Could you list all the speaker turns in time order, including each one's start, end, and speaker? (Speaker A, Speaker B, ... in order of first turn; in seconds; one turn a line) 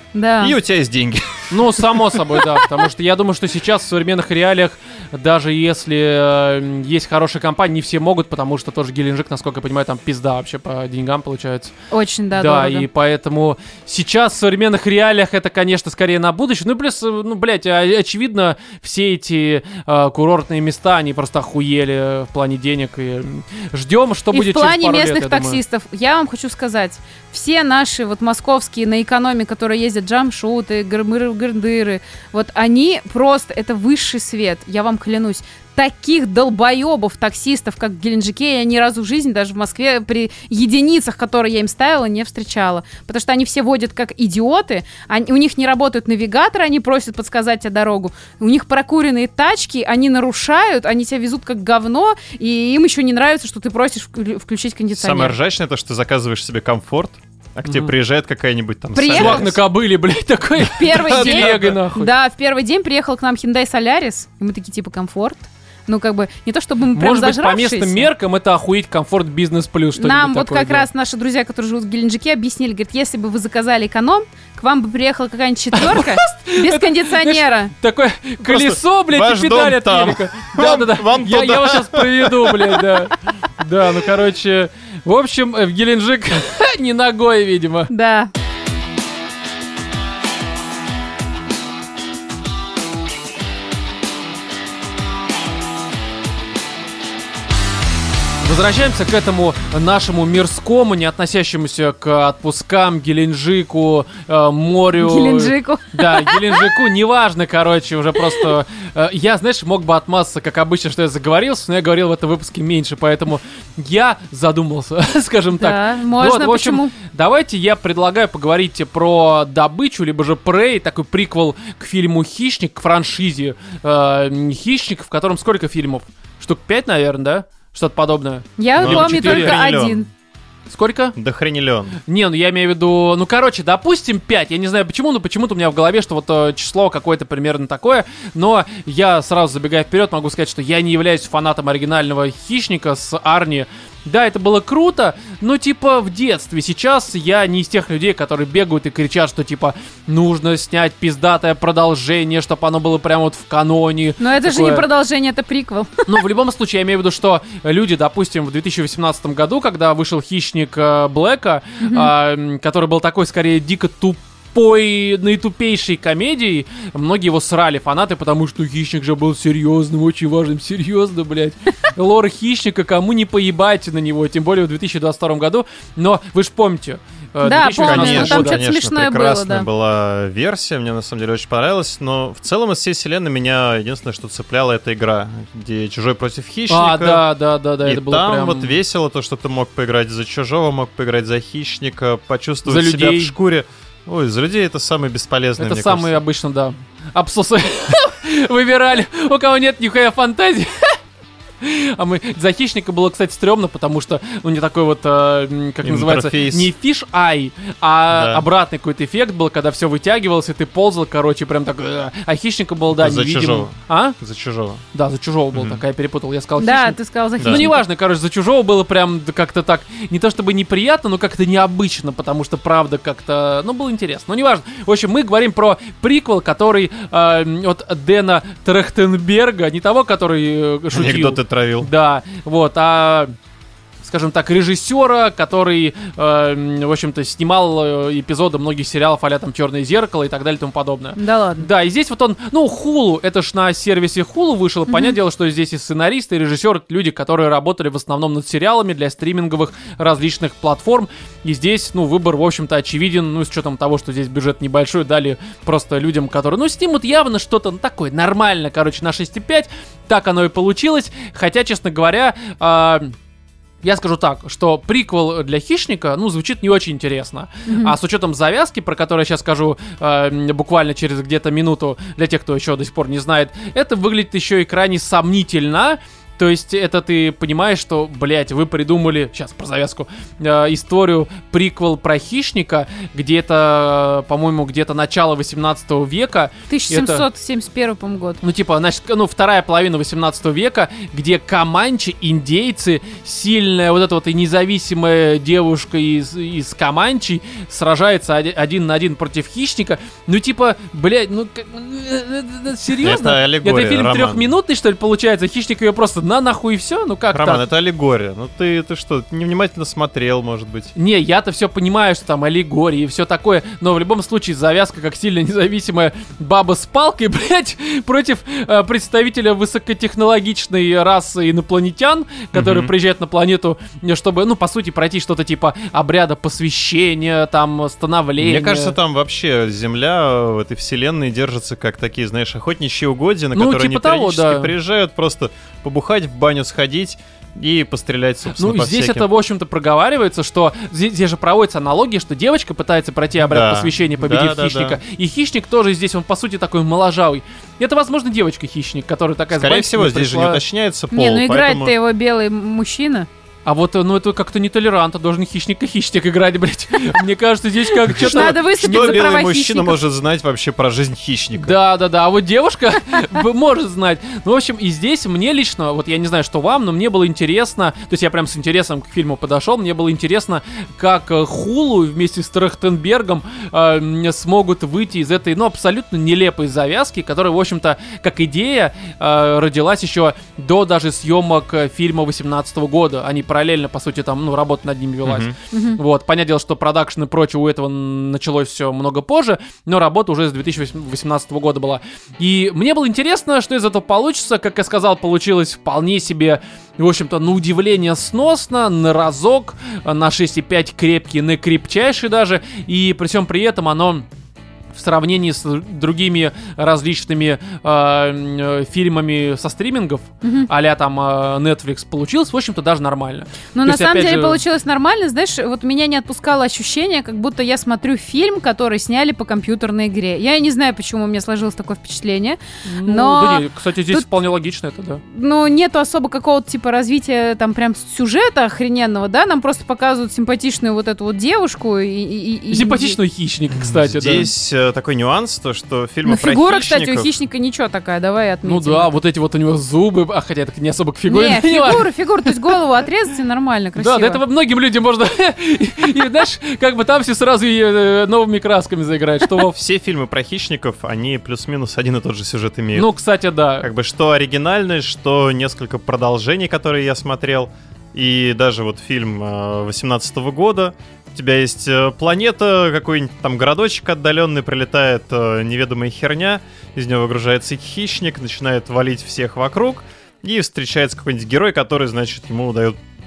Speaker A: 0.1-0.6
Speaker B: 0.4-2.4
Speaker C: 1.5-11.7
Speaker A: 11.9-12.9
Speaker C: 12.3-25.6
Speaker A: 24.3-55.4
Speaker B: 55.0-59.6
Speaker C: 57.6-57.9
Speaker A: 58.9-59.5
Speaker C: 59.1-62.1
Speaker A: 60.8-68.1
Speaker B: 60.9-61.8
Speaker C: 66.9-70.9
Speaker A: 70.0-77.7
Speaker C: 75.7-87.9
Speaker B: 78.5-83.0
Speaker A: 87.9-88.3
Speaker C: 98.4-129.6
Speaker A: 105.0-106.7
Speaker A: 115.6-116.9
Speaker A: 128.6-130.1
Speaker B: 128.8-130.1
Speaker C: 130.7-131.2
Speaker B: 131.2-132.0
Speaker C: 132.1-154.8
Speaker A: 154.2-156.1
Speaker C: 156.1-178.6
Speaker A: 161.8-162.1
Speaker A: 177.4-179.7
Speaker B: 177.8-187.3
Speaker C: 186.7-188.8
Speaker B: 187.8-196.2
Speaker C: 192.7-193.3
Speaker C: 195.6-201.0
Speaker C: 201.6-214.2
Speaker B: 205.8-206.7
Speaker B: 208.1-208.4
Speaker B: 212.9-214.8
Speaker C: 214.9-233.3
Speaker B: 215.5-215.8
Speaker A: 216.6-217.8
Speaker B: 217.4-217.7
Speaker B: 230.9-231.9
Speaker C: 234.0-263.1
Speaker A: 241.2-241.7
Speaker A: 244.9-245.2
Speaker C: 263.8-287.2
Speaker A: 267.7-268.0
Speaker A: 286.7-288.4
Speaker C: 288.4-307.6
Speaker B: 303.0-304.5
Speaker B: 307.3-310.9
Speaker C: 310.9-329.0
Speaker B: 322.5-322.9
Speaker B: 328.4-339.3
Speaker C: 333.6-334.7
Speaker C: 338.6-350.6
Speaker B: 343.4-345.0
Speaker B: 349.5-351.9
Speaker A: 351.1-353.3
Speaker C: 353.7-359.2
Speaker A: 358.1-360.0
Speaker B: 358.1-361.8
Speaker C: 361.6-404.2
Speaker B: 385.2-385.5
Speaker A: 385.7-386.0
Speaker C: 404.9-414.6
Speaker A: 410.4-410.7
Speaker A: 413.7-424.3
Speaker C: 422.9-425.2
Speaker A: 425.3-433.2
Speaker C: 432.7-434.5
Speaker B: 433.8-437.3
Speaker A: 436.3-439.1
Speaker C: 438.6-442.6
Speaker A: 441.3-444.4
Speaker C: 444.0-449.7
Speaker B: 449.7-453.1
Speaker C: 452.9-453.9
Speaker B: 453.8-473.0